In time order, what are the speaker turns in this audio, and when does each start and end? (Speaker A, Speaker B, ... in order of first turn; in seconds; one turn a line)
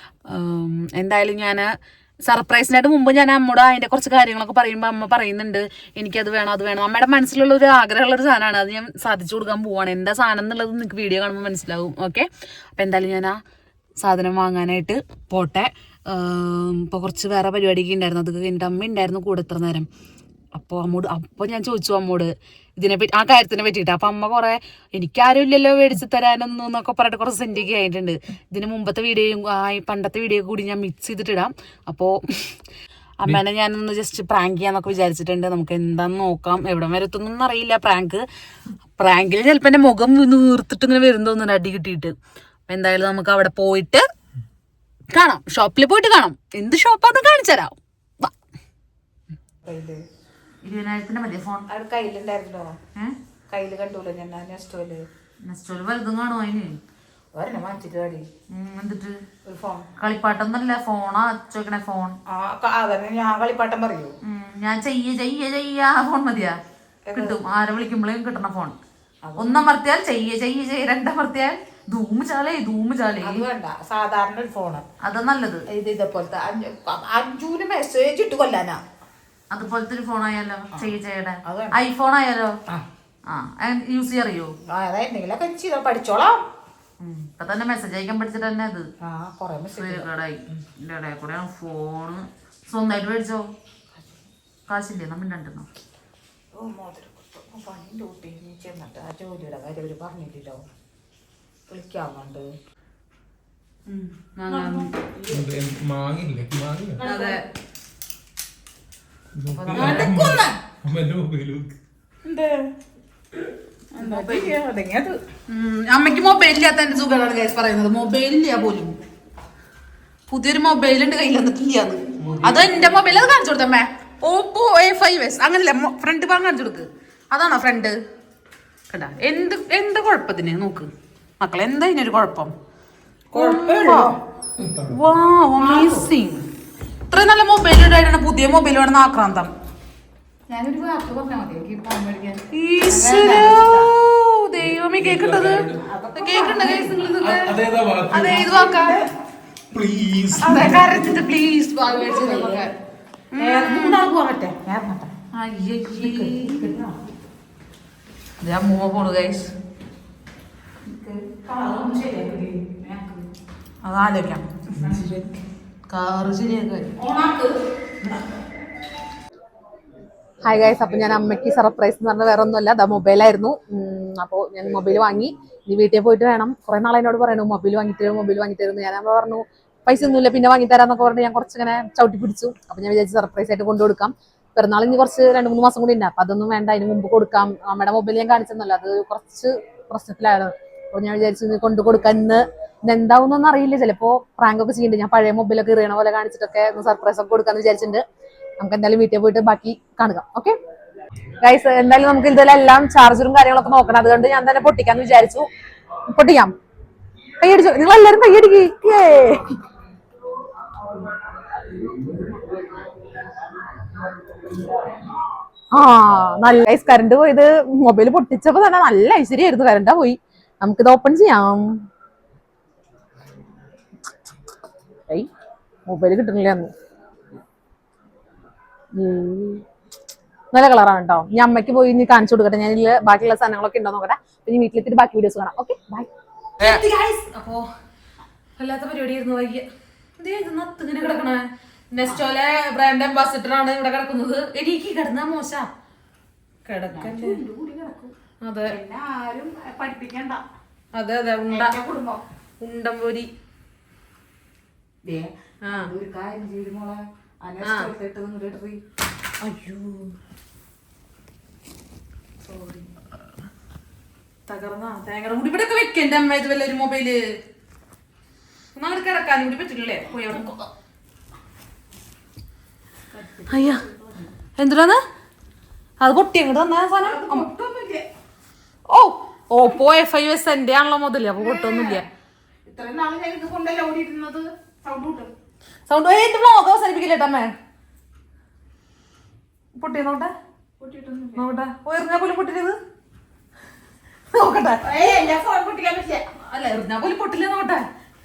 Speaker A: 0.3-1.7
Speaker A: 2.3-13.4
Speaker A: 14.0-19.9
Speaker A: 20.5-32.5
Speaker A: 33.2-38.2
Speaker A: 39.0-42.1
Speaker A: 42.7-44.1
Speaker A: 45.1-48.3
Speaker B: 49.6-50.0
Speaker A: 50.6-51.7
Speaker B: 51.7-52.7
Speaker B: 53.5-55.0
Speaker A: 55.5-56.8
Speaker B: 57.4-58.3
Speaker A: 58.5-59.2
Speaker B: 59.5-59.9
Speaker A: 60.0-62.2
Speaker B: 62.3-64.2
Speaker A: 64.2-66.6
Speaker B: 67.1-67.4
Speaker A: 67.1-68.8
Speaker B: 69.2-69.6
Speaker A: 69.4-73.4
Speaker B: 73.2-74.8
Speaker A: 75.0-75.6
Speaker B: 75.7-78.8
Speaker A: 79.5-82.5
Speaker B: 81.5-81.8
Speaker A: 83.3-84.5
Speaker B: 84.7-86.4
Speaker A: 87.0-88.9
Speaker B: 89.0-90.6
Speaker A: 89.8-93.5
Speaker A: 94.7-95.7
Speaker B: 96.5-100.6
Speaker B: 101.7-102.5
Speaker A: 103.9-104.9
Speaker B: 104.5-105.5
Speaker C: 105.3-107.0
Speaker B: 107.0-107.4
Speaker A: 107.0-107.4
Speaker C: 109.3-111.8
Speaker A: 109.5-110.3
Speaker B: 109.7-110.5
Speaker B: 112.2-112.7
Speaker B: 114.0-115.2
Speaker A: 114.0-114.6
Speaker A: 115.5-119.0
Speaker A: 120.3-128.0
Speaker C: 122.2-123.2
Speaker A: 128.9-130.9
Speaker A: 131.4-132.5
Speaker A: 133.3-134.1
Speaker B: 133.3-134.2
Speaker C: 134.6-135.0
Speaker A: 134.9-136.5
Speaker B: 135.6-136.1
Speaker A: 137.1-139.5
Speaker B: 140.5-143.9
Speaker A: 142.5-147.5
Speaker C: 144.7-145.8
Speaker B: 145.8-147.4
Speaker C: 147.2-148.4
Speaker A: 148.1-149.0
Speaker B: 148.1-149.1
Speaker C: 149.7-151.1
Speaker B: 150.3-150.9
Speaker A: 150.4-152.7
Speaker B: 151.8-152.7
Speaker A: 153.3-154.0
Speaker B: 153.4-155.1
Speaker A: 155.3-156.7
Speaker B: 155.9-156.9
Speaker A: 158.4-159.5
Speaker B: 160.9-163.3
Speaker A: 163.8-164.5
Speaker B: 164.7-165.3
Speaker A: 165.9-166.9
Speaker B: 167.0-167.6
Speaker D: 170.6-197.0
Speaker A: 186.9-187.3
Speaker A: 187.8-189.4
Speaker A: 189.9-190.2
Speaker A: 191.0-191.3
Speaker A: 192.9-198.0
Speaker A: 198.6-200.5
Speaker D: 198.8-200.5
Speaker D: 201.5-205.4
Speaker A: 201.5-205.4
Speaker D: 206.1-206.5
Speaker D: 207.4-209.4
Speaker A: 207.6-208.5
Speaker D: 210.9-212.6
Speaker D: 215.8-221.7
Speaker A: 218.0-219.8
Speaker D: 225.9-226.7
Speaker D: 229.0-229.6
Speaker D: 230.5-236.1
Speaker A: 236.6-237.7
Speaker A: 238.6-239.7
Speaker A: 240.2-245.7
Speaker A: 246.7-247.4
Speaker B: 246.9-248.2
Speaker A: 248.4-248.8
Speaker B: 248.7-250.4
Speaker A: 250.9-251.8
Speaker B: 251.5-252.2
Speaker A: 252.6-253.3
Speaker B: 255.1-258.8
Speaker A: 255.7-255.9
Speaker A: 257.6-257.9
Speaker A: 259.4-260.1
Speaker A: 264.5-267.2
Speaker A: 268.8-270.6
Speaker B: 270.2-270.5
Speaker B: 273.1-274.3
Speaker A: 273.5-273.8
Speaker A: 274.6-275.0
Speaker A: 276.0-277.5
Speaker B: 277.0-278.1
Speaker A: 278.9-282.1
Speaker B: 281.4-282.1
Speaker B: 282.7-285.3
Speaker A: 285.9-287.5
Speaker A: 289.8-290.3
Speaker B: 290.8-291.4
Speaker A: 291.4-292.8
Speaker A: 294.3-294.9
Speaker B: 294.8-296.2
Speaker A: 296.5-297.9